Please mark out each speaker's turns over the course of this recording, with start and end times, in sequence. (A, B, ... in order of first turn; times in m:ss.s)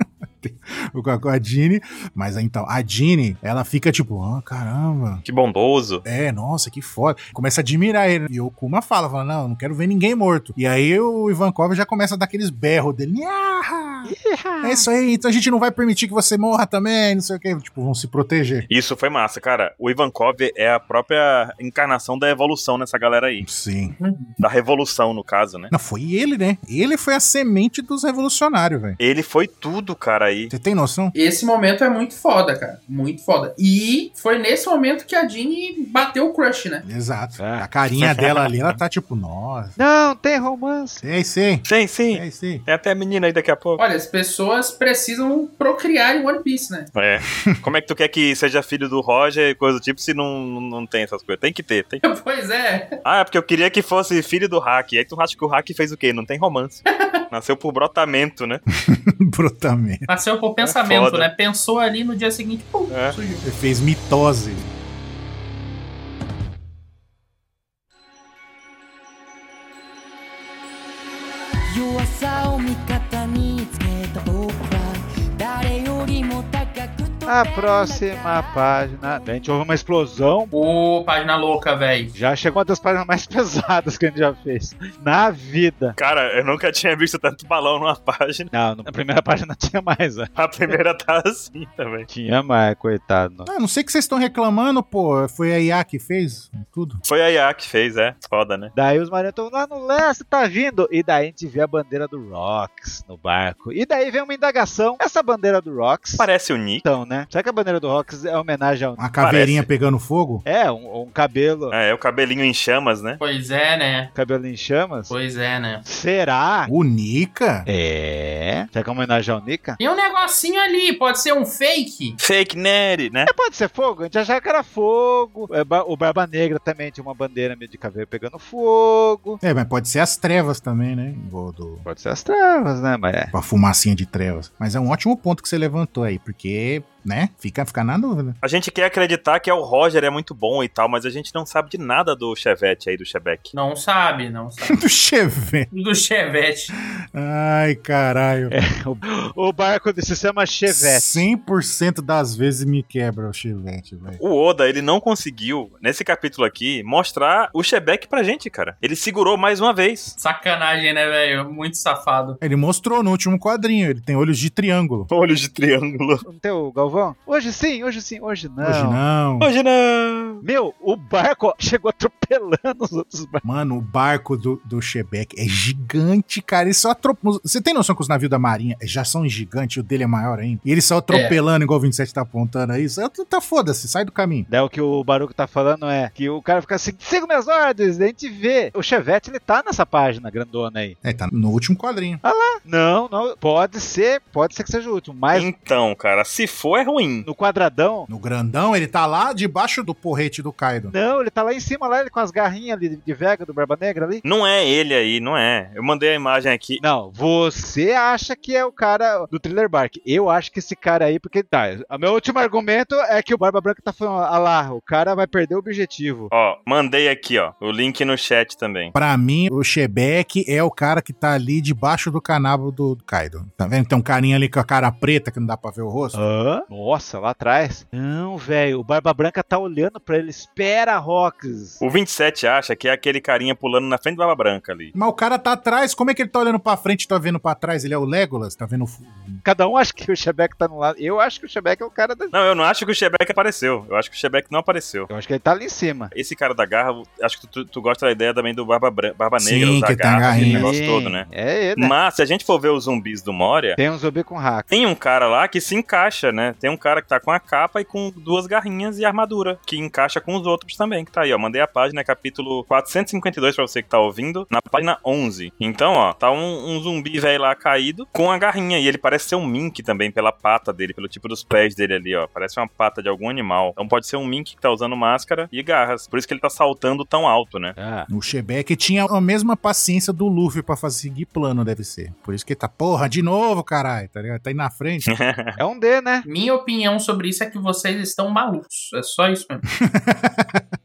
0:00.4-0:05.2 A
0:05.2-0:06.0 B
0:06.0-0:18.7 A
0:14.0-0:14.9 C
0:18.7-0:23.4 B
0:23.4-0:24.0 A
0:24.0-0:24.3 D
0:24.4-0:25.7 B
0:25.7-0:29.0 A
0:29.0-0:30.5 B
0:30.5-0:31.1 A
0:31.1-0:36.8 D
0:36.8-0:39.8 A
0:37.4-0:37.7 C
0:38.0-0:38.5 B
0:39.8-0:41.0 C
0:41.0-0:42.6 A
0:41.7-0:43.8 B
0:43.8-0:46.9 D
0:46.9-0:52.0 B
0:52.0-0:53.0 D
0:53.0-0:58.6 B
0:58.8-1:00.1 A
1:00.1-1:03.4 D
1:00.6-1:01.3 B
1:02.9-1:03.2 B
1:03.4-1:04.7 A
1:11.7-1:19.3 E
1:17.3-1:20.5 C
1:20.5-1:22.1 D
1:22.1-1:26.0 C
1:26.0-1:28.5 B
1:28.5-1:30.7 C
1:30.4-1:32.1 B
1:32.1-1:33.5 C
1:33.5-1:37.0 A
1:37.0-1:38.7 B
1:38.7-1:46.3 C
1:46.2-1:46.8 B
1:46.8-1:49.0 C
1:49.0-1:50.4 A
1:49.2-1:49.7 B
1:50.4-1:51.7 C
1:51.7-1:53.2 B
1:53.2-1:54.1 D
1:54.2-1:55.1 C
1:55.1-1:55.8 D
1:55.8-1:56.7 C
1:56.7-1:57.7 A
1:57.7-1:59.8 C
1:59.8-2:02.2 D
2:02.2-2:03.3 B
2:03.3-2:09.4 C
2:09.4-2:11.8 A
2:11.8-2:13.3 C
2:13.3-2:18.4 A
2:18.4-2:23.5 B
2:23.5-2:24.8 D
2:24.6-2:25.7 A
2:25.7-2:26.7 D
2:27.1-2:28.6 A
2:28.5-2:31.3 C
2:30.7-2:34.2 A
2:34.2-2:40.2 B
2:40.2-2:42.4 D
2:42.4-2:45.1 A
2:45.1-2:46.2 B
2:46.2-2:49.0 C
2:48.6-2:49.5 A
2:49.4-2:50.4 B
2:50.4-2:53.4 C
2:53.4-3:04.5 A
3:01.1-3:01.4 D
3:04.5-3:11.0 C
3:11.0-3:12.2 A
3:12.2-3:15.5 C
3:15.3-3:17.3 B
3:17.2-3:18.1 C
3:18.1-3:20.9 A
3:20.9-3:24.2 C
3:24.2-3:26.8 B
3:26.8-3:36.3 C
3:36.3-3:38.9 B
3:38.9-3:46.2 A
3:46.1-3:51.8 C
3:51.8-3:54.9 B
3:54.9-3:59.4 A
3:59.4-4:02.3 C
4:02.3-4:05.1 B
4:05.1-4:06.1 C
4:06.1-4:11.2 B
4:09.4-4:10.7 A
4:10.3-4:11.9 C
4:11.8-4:13.8 B
4:13.8-4:14.7 C
4:14.7-4:37.8 B
4:37.8-4:38.1 C
4:38.1-4:45.1 A
4:45.1-4:45.6 B
4:45.6-4:46.3 C
4:46.2-4:49.6 D
4:49.7-4:50.6 A